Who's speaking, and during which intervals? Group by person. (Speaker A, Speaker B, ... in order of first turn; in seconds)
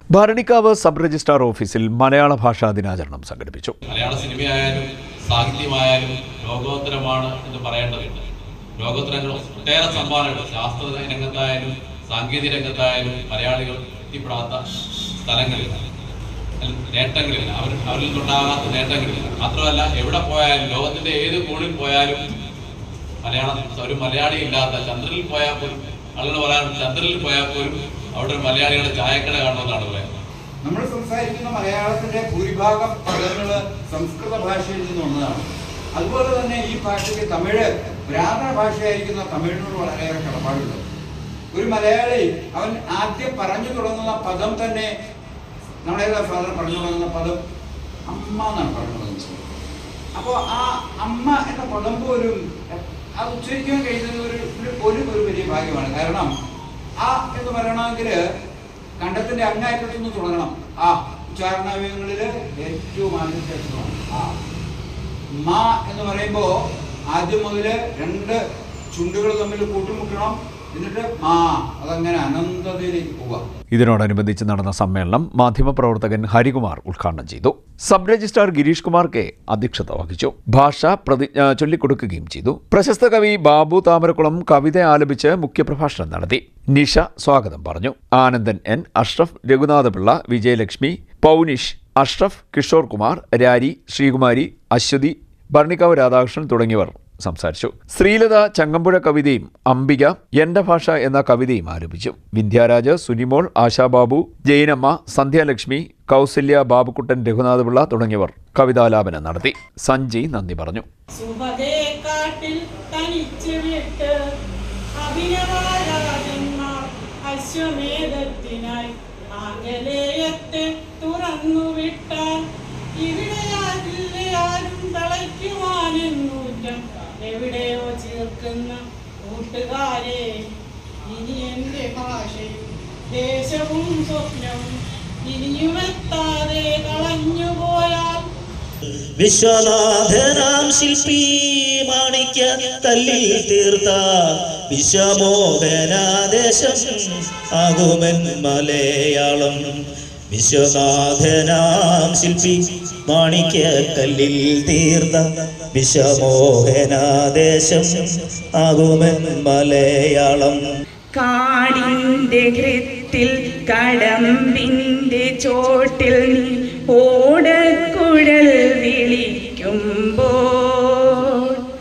Speaker A: 0.1-3.8, 73.7-110.8
Speaker B: 3.9-8.2, 8.8-14.6, 15.2-15.8, 16.6-22.2, 23.2-30.1
Speaker C: 30.6-40.8, 41.5-44.9, 45.8-47.4, 48.1-49.4, 50.1-56.3, 57.0-58.2, 59.0-64.3, 65.4-66.5, 67.1-68.4, 68.9-73.5
Speaker D: 111.2-114.1, 115.0-122.4, 123.0-130.4, 131.1-134.7, 135.3-138.2
Speaker E: 139.2-144.2, 144.7-147.0, 147.6-149.6, 150.3-155.2, 155.7-158.1, 158.6-160.6
Speaker F: 161.1-171.6